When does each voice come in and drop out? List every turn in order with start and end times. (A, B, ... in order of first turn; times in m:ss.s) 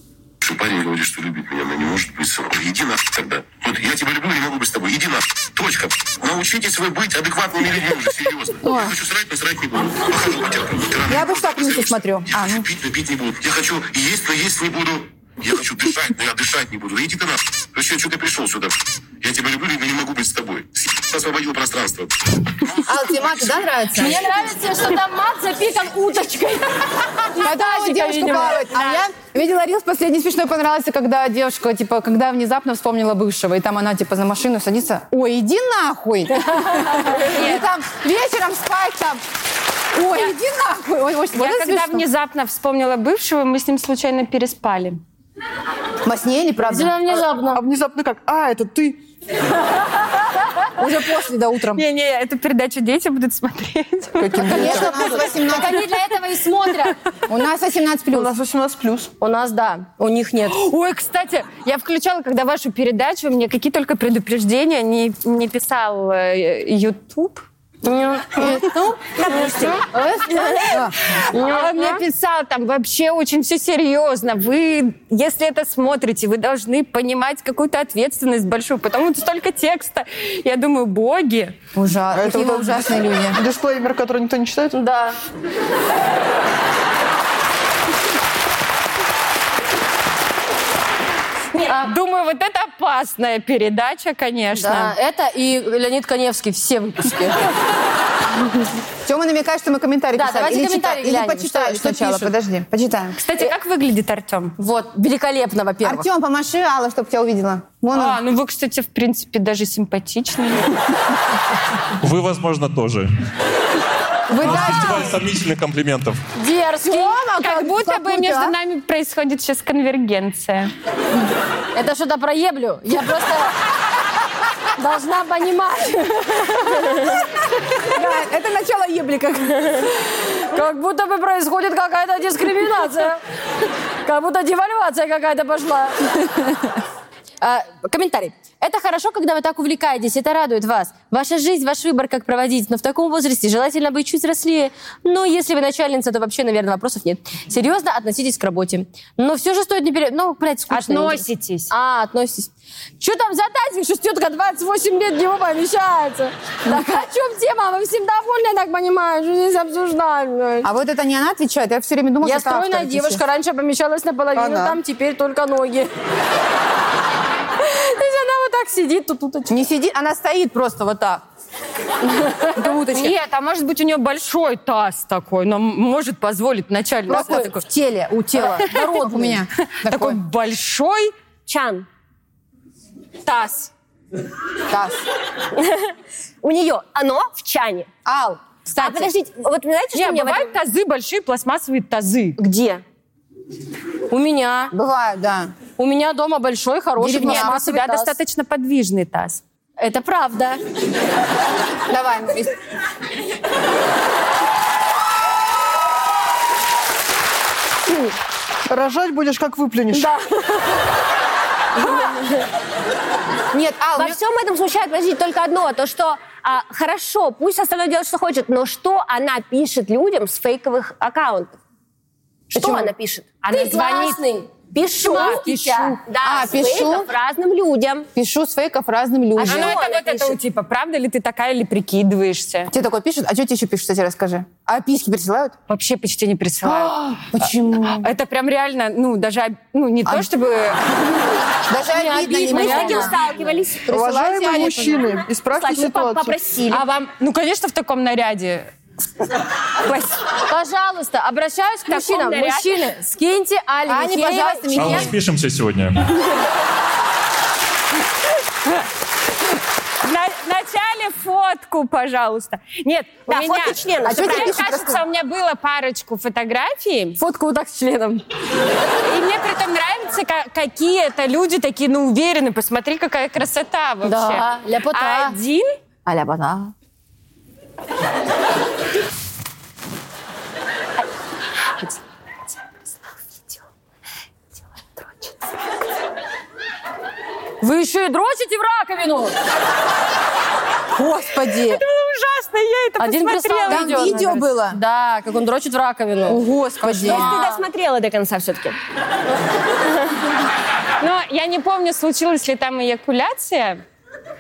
0:00.4-0:23.3 A
0:08.6-0:08.9 B
0:11.1-0:12.7 C
0:22.8-0:24.5 C
0:24.0-0:28.7 B
0:27.4-0:39.2 C
0:28.7-0:29.0 D
0:36.6-0:37.2 B
0:37.2-0:37.7 D
0:40.0-0:42.0 C
0:41.3-0:45.0 D
0:46.0-0:47.0 C
0:46.6-0:47.6 B
0:47.5-0:49.0 E
0:50.8-0:51.8 C
0:51.7-0:55.0 D
0:54.2-0:55.2 E
0:54.4-0:55.8 C
0:54.6-0:57.0 B
0:57.3-0:58.3 C
0:58.1-0:59.1 E
0:59.2-1:00.6 B
1:00.5-1:07.5 D
1:07.8-1:08.7 B
1:08.4-1:09.4 C
1:09.2-1:09.8 F
1:09.3-1:10.7 B
1:10.6-1:11.0 C
1:11.3-1:12.0 B
1:11.4-1:21.6 D
1:21.8-1:23.4 C
1:22.1-1:24.8 E
1:24.7-1:25.2 B
1:31.5-1:34.9 D
1:31.6-1:31.9 B
1:34.5-1:37.4 B
1:39.1-1:43.2 C
1:40.2-1:42.3 B
1:43.2-1:44.6 D
1:44.6-1:46.1 B
1:45.8-1:48.2 C
1:47.9-1:50.8 D
1:52.0-1:53.1 G
1:54.3-1:55.2 C
1:54.4-1:56.2 G
1:56.4-1:57.3 B
1:56.8-1:58.6 C
1:57.4-2:00.7 D
2:01.7-2:03.6 B
2:04.8-2:07.2 B
2:07.8-2:09.9 C
2:10.4-2:13.2 B
2:14.0-2:16.6 B
2:17.4-2:40.7 B
2:30.7-2:31.7 D
2:40.6-2:43.2 C
2:42.2-2:45.9 B
2:44.4-2:44.8 E
2:47.6-2:49.6 B
2:49.5-2:51.2 C
2:52.1-2:52.5 B
2:52.5-2:53.2 C
2:52.8-2:57.6 D
2:57.1-2:57.6 B
2:57.1-3:00.2 C
2:58.3-2:59.4 B
2:59.7-3:01.1 D
3:01.5-3:01.9 F
3:03.2-3:03.7 D
3:04.7-3:05.0 C
3:05.5-3:07.9 F
3:08.0-3:09.1 C
3:08.8-3:10.5 F
3:09.9-3:12.4 D
3:12.4-3:12.8 F
3:14.1-3:14.7 B
3:14.7-3:15.5 C
3:15.8-3:18.2 B
3:17.0-3:17.6 C
3:17.2-3:19.4 D
3:19.8-3:20.6 B
3:21.9-3:22.5 C
3:28.7-3:30.1 E
3:29.9-3:30.7 B
3:33.5-3:34.2 C
3:34.0-3:41.6 F
3:42.5-3:43.4 F
3:42.5-3:42.9 C
3:43.4-3:44.2 D
3:43.5-3:46.0 B
3:45.0-3:45.4 F
3:45.0-3:46.0 D
3:46.1-3:48.1 F
3:46.2-3:47.1 C
3:48.2-3:49.8 C
3:49.4-3:50.4 F
3:49.4-3:52.7 D
3:52.7-3:55.6 C
3:55.7-3:56.9 D
3:56.6-3:58.1 C
3:57.9-4:01.0 D
4:01.7-4:03.2 C
4:01.9-4:03.2 B
4:02.5-4:03.9 F
4:03.9-4:05.0 C
4:03.9-4:06.4 E
4:05.5-4:06.8 F
4:06.7-4:08.7 D
4:09.8-4:10.2 D
4:10.5-4:15.1 B
4:11.9-4:12.8 D
4:13.9-4:15.2 C
4:14.7-4:16.0 G
4:20.0-4:27.2 D
4:23.3-4:24.8 F
4:24.0-4:25.0 C
4:27.2-4:28.2 B
4:29.0-4:35.7 D
4:34.0-4:35.4 B
4:36.1-4:36.7 B
4:47.6-4:49.3 B
4:50.9-4:51.8 C
4:51.6-4:54.4 D
4:53.0-4:57.6 B
4:53.7-4:54.8 C
4:56.3-4:57.3 C
4:57.0-4:58.8 F
5:01.0-5:03.8 D